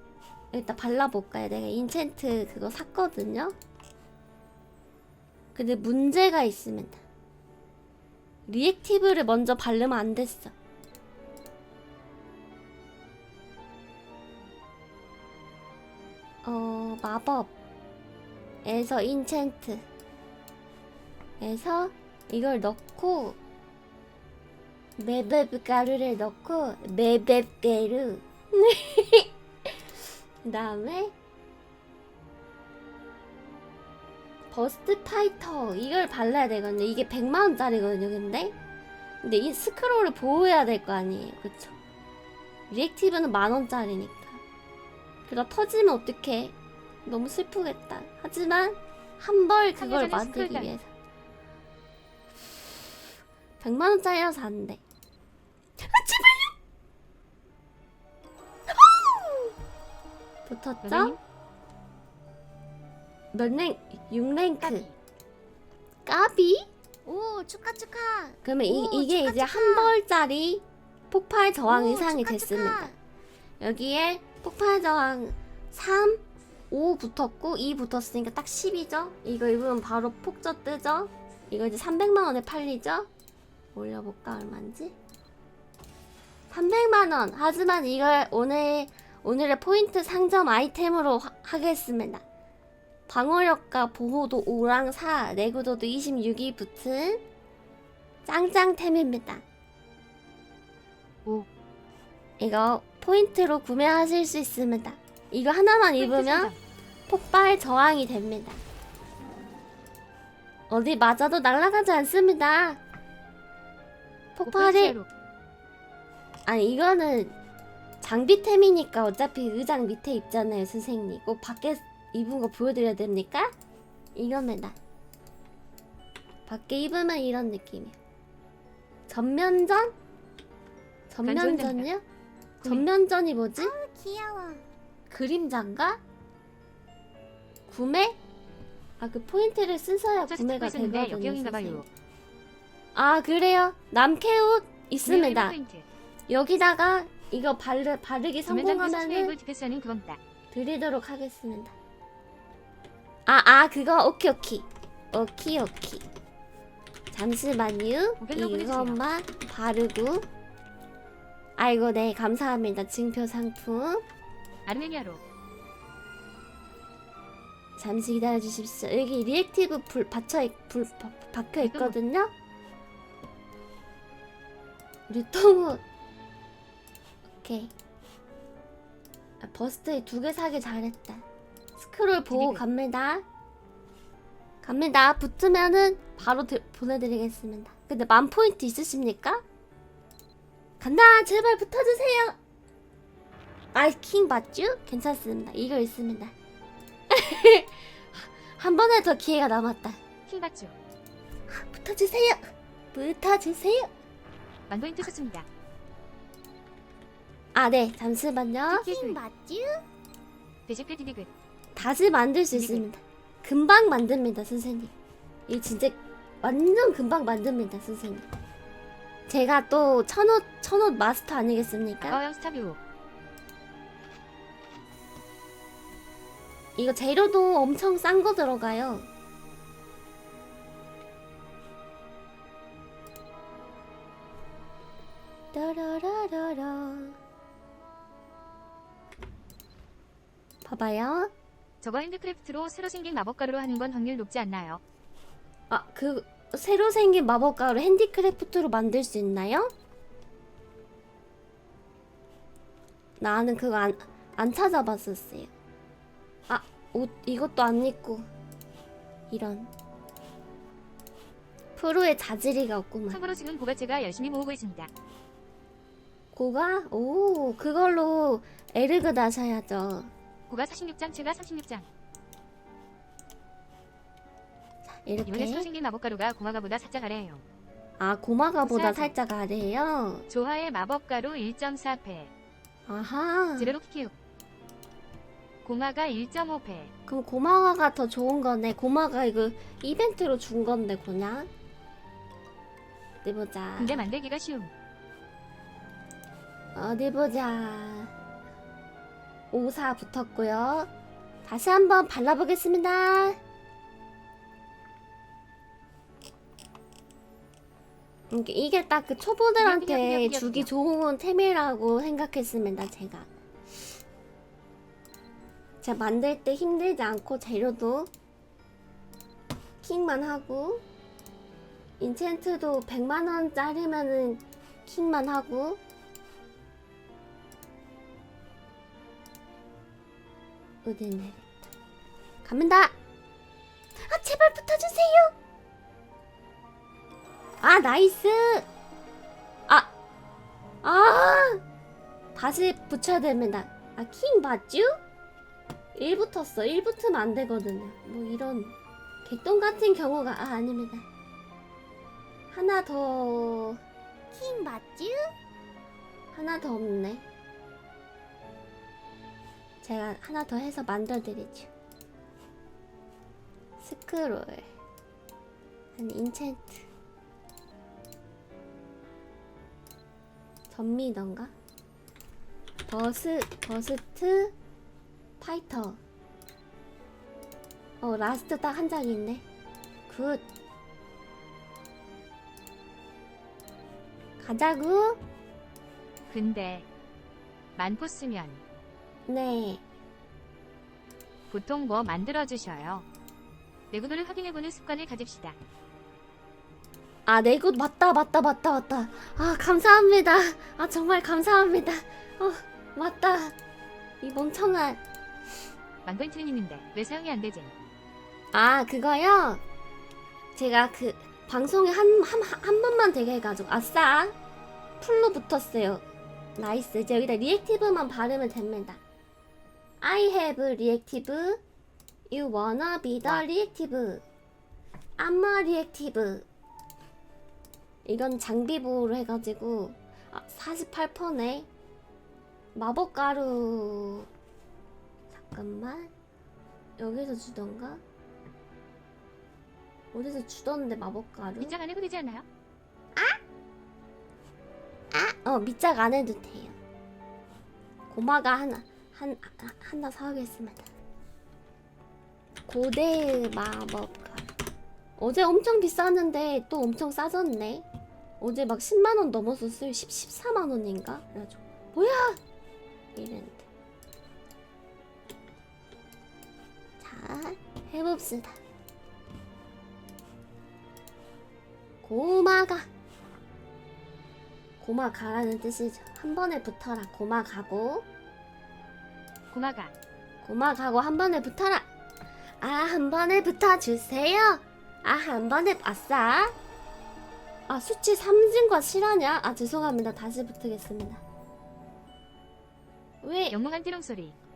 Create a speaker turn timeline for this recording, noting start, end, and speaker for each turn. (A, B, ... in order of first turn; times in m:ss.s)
0:00.5-0:03.5 A
0:05.6-0:07.0 A
0:08.5-0:10.5 A
0:16.4-0:17.5 A
0:18.6-0:19.8 A
0:21.4-0:23.4 A
0:25.0-0:29.7 A
0:30.4-0:31.1 A
0:34.5-0:38.6 A
0:39.2-0:41.7 A
0:42.7-0:44.4 A
0:45.3-0:46.6 A
0:47.1-0:50.9 A
0:49.8-0:50.7 B
0:53.6-0:54.8 A
0:55.8-0:56.5 A
0:58.7-0:59.5 A
1:00.5-1:01.2 A
1:00.8-1:01.2 B
1:03.3-1:04.9 A
1:04.6-1:05.0 B
1:06.1-1:06.7 A
1:07.0-1:10.0 C
1:08.4-1:12.9 A
1:11.7-1:12.0 B
1:11.8-1:13.0 C
1:13.6-1:23.1 A
1:23.8-1:25.0 A
1:26.5-1:32.2 A
1:33.1-1:37.2 A
1:38.3-1:39.4 A
1:42.4-1:46.5 A
1:46.0-1:46.6 B
1:47.1-1:48.6 A
1:50.7-1:52.8 A
1:54.4-1:55.0 A
1:54.4-1:55.1 B
1:56.5-1:57.3 A
1:58.0-2:03.5 A
2:04.2-2:04.8 A
2:06.5-2:08.0 A
2:09.1-2:09.9 A
2:11.1-2:12.0 A
2:11.2-2:11.9 B
2:12.6-2:12.9 B
2:12.6-2:13.8 A
2:13.6-2:14.6 C
2:15.1-2:16.0 A
2:17.7-2:18.2 A
2:19.0-2:21.8 A
2:20.2-2:21.9 B
2:23.0-2:25.6 A
2:25.0-2:25.9 B
2:26.3-2:29.3 A
2:28.5-2:30.2 B
2:30.5-2:31.7 A
2:33.3-2:36.0 A
2:37.1-2:40.3 A
2:38.2-2:39.0 B
2:41.6-2:44.0 A
2:44.7-2:45.2 B
2:47.8-2:52.3 A
2:51.6-2:52.0 B
2:55.1-2:55.8 A
2:57.4-2:57.7 A
2:59.4-3:01.2 A
3:01.8-3:03.2 A
3:02.3-3:02.6 B
3:04.6-3:09.4 A
3:10.8-3:12.4 A
3:13.7-3:16.3 A
3:17.1-3:20.0 A
3:20.3-3:20.8 B
3:21.5-3:22.4 A
3:22.9-3:23.9 A
3:24.7-3:25.5 B
3:27.6-3:28.9 A
3:28.7-3:29.2 B
3:28.7-3:29.8 C
3:30.7-3:31.3 B
3:31.8-3:34.9 A
3:32.5-3:32.9 B
3:35.5-3:38.2 A
3:39.3-3:42.2 A
3:42.0-3:42.8 B
3:46.8-3:49.1 A
3:55.5-3:57.2 A
4:00.6-4:01.3 A
4:01.8-4:04.8 B
4:05.7-4:09.7 A
4:13.2-4:15.5 A
4:16.5-4:18.3 A
4:19.3-4:19.7 A
4:21.8-4:23.2 A
4:23.1-4:24.9 B
4:26.3-4:30.1 A
4:30.5-4:31.9 B
4:35.0-4:35.7 A
4:35.3-4:37.4 B
4:38.0-4:40.3 A
4:38.6-4:39.2 B
4:40.3-4:42.3 B
4:42.9-4:43.7 A
4:43.6-4:44.1 B
4:45.6-4:46.9 B
4:47.1-4:51.5 A
4:53.2-4:54.1 A
4:53.8-4:54.7 B
4:56.8-4:58.1 A
4:59.5-5:00.9 A
5:01.4-5:03.4 A
5:08.3-5:13.3 A
5:09.6-5:10.7 B
5:15.8-5:18.1 A
5:19.8-5:20.8 A
5:22.0-5:25.8 A
5:30.8-5:31.7 A
5:32.4-5:32.9 A
5:34.0-5:35.3 A
5:37.6-5:38.7 A
5:40.8-5:41.6 A
5:42.4-5:44.9 A
5:46.0-5:51.1 A
5:52.5-5:53.8 A
5:54.3-5:55.3 C
5:56.3-5:57.2 A
5:59.8-6:01.7 A
6:03.8-6:04.7 A
6:06.0-6:06.9 A
6:10.7-6:11.5 A
6:12.9-6:14.5 A
6:15.4-6:16.0 A
6:18.0-6:19.4 A
6:20.1-6:20.4 A
6:24.4-6:25.2 A
6:26.3-6:26.9 B
6:27.8-6:28.6 B
6:29.3-6:29.8 A
6:31.5-6:33.1 B
6:33.9-6:35.6 B
6:37.3-6:43.6 A
6:44.2-6:45.0 A
6:46.0-6:47.7 B
6:48.5-6:49.6 A
6:50.6-6:54.3 A
6:55.0-6:56.0 A
6:56.6-6:59.0 A
7:00.0-7:01.6 A
7:02.3-7:04.2 A
7:05.2-7:06.5 A
7:08.1-7:11.7 A
7:12.8-7:14.3 A
7:15.3-7:16.1 A
7:17.0-7:18.0 A
7:20.1-7:21.8 A
7:21.6-7:22.5 B
7:25.1-7:26.8 A
7:28.1-7:30.9 A
7:32.7-7:34.5 A
7:35.2-7:37.9 A
7:38.4-7:42.4 A
7:43.2-7:43.7 A
7:47.0-7:48.6 A
7:52.0-7:52.9 A
7:54.8-7:58.1 A
7:59.5-7:59.9 B
8:00.4-8:01.9 A
8:02.6-8:06.5 A
8:07.7-8:11.2 A
8:13.2-8:13.6 A
8:13.5-8:14.4 B